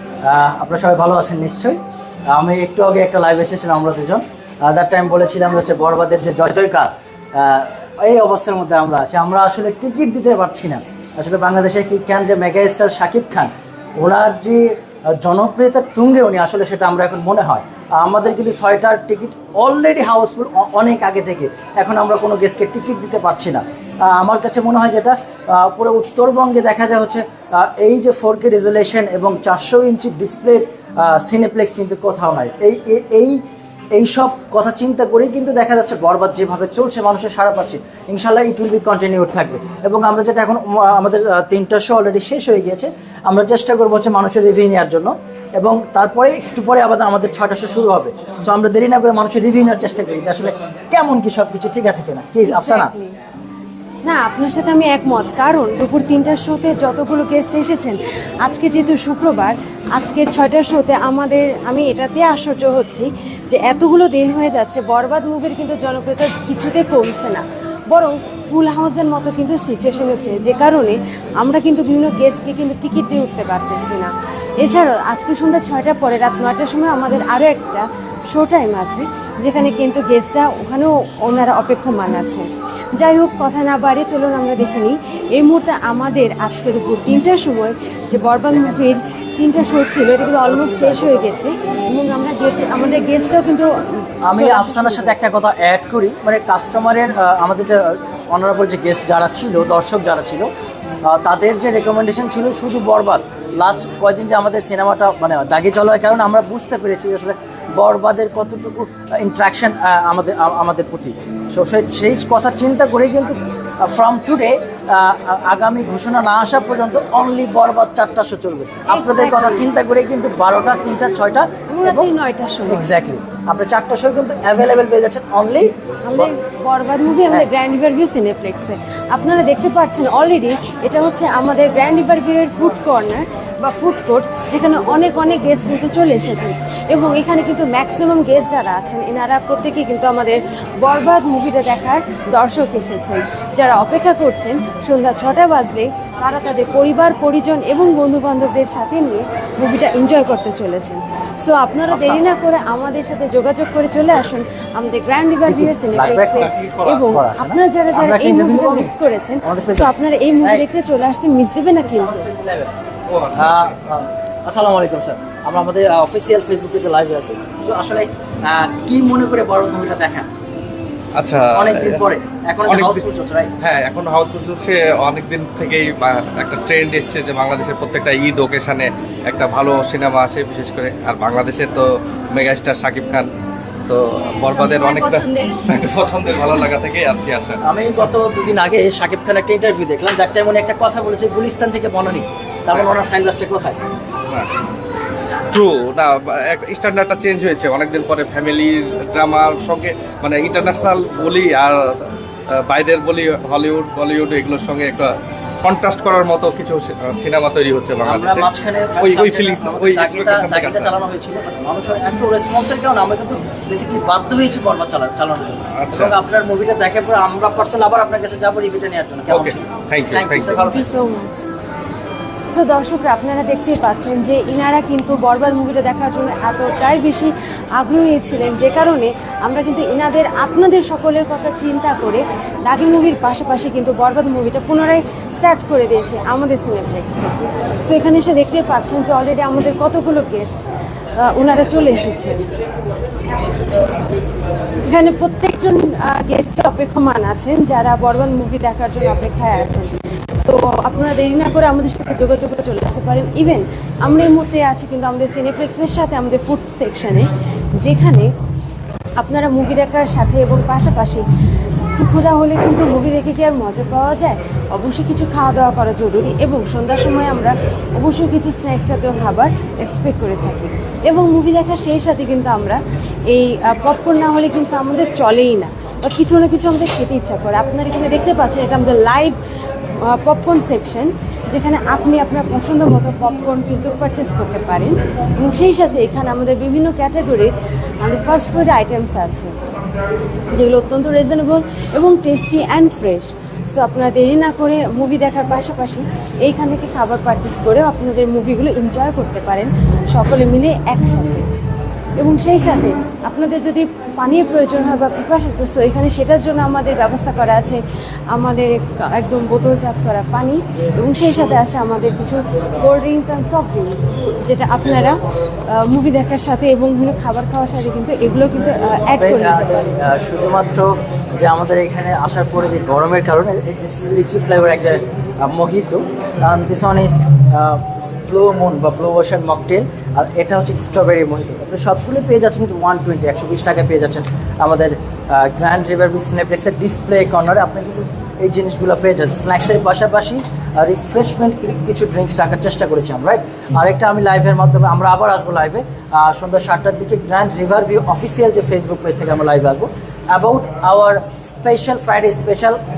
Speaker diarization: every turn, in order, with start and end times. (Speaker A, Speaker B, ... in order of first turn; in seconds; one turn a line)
Speaker A: 0.2-1.8
Speaker A: 2.3-33.4
Speaker A: 33.9-52.9
Speaker B: 52.4-53.1
Speaker B: 54.0-95.2
Speaker A: 88.5-89.0
Speaker A: 90.2-91.3
Speaker A: 94.2-100.5
Speaker A: 101.0-122.1
Speaker B: 118.9-119.7
Speaker B: 121.7-122.9
Speaker A: 122.7-126.3
Speaker B: 126.0-162.2
Speaker A: 151.9-152.3
Speaker A: 155.5-158.9
Speaker C: 156.4-157.0
Speaker A: 159.4-159.9
Speaker A: 161.8-162.8
Speaker C: 163.1-163.8
Speaker A: 163.3-170.3
Speaker C: 171.2-172.1
Speaker A: 171.6-173.5
Speaker C: 172.7-173.0
Speaker C: 173.6-183.3
Speaker C: 183.9-187.6
Speaker A: 187.6-193.8
Speaker C: 195.5-208.5
Speaker A: 208.0-220.9
Speaker C: 209.0-210.9
Speaker C: 215.8-216.2
Speaker C: 219.3-220.5
Speaker B: 220.5-221.5
Speaker B: 222.5-240.6
Speaker B: 241.2-242.5
Speaker B: 244.8-258.3
Speaker B: 259.2-261.2
Speaker B: 262.0-279.4
Speaker B: 280.0-289.6
Speaker B: 290.5-301.5
Speaker B: 302.2-307.8
Speaker B: 308.3-315.2
Speaker B: 315.7-320.0
Speaker A: 319.2-352.8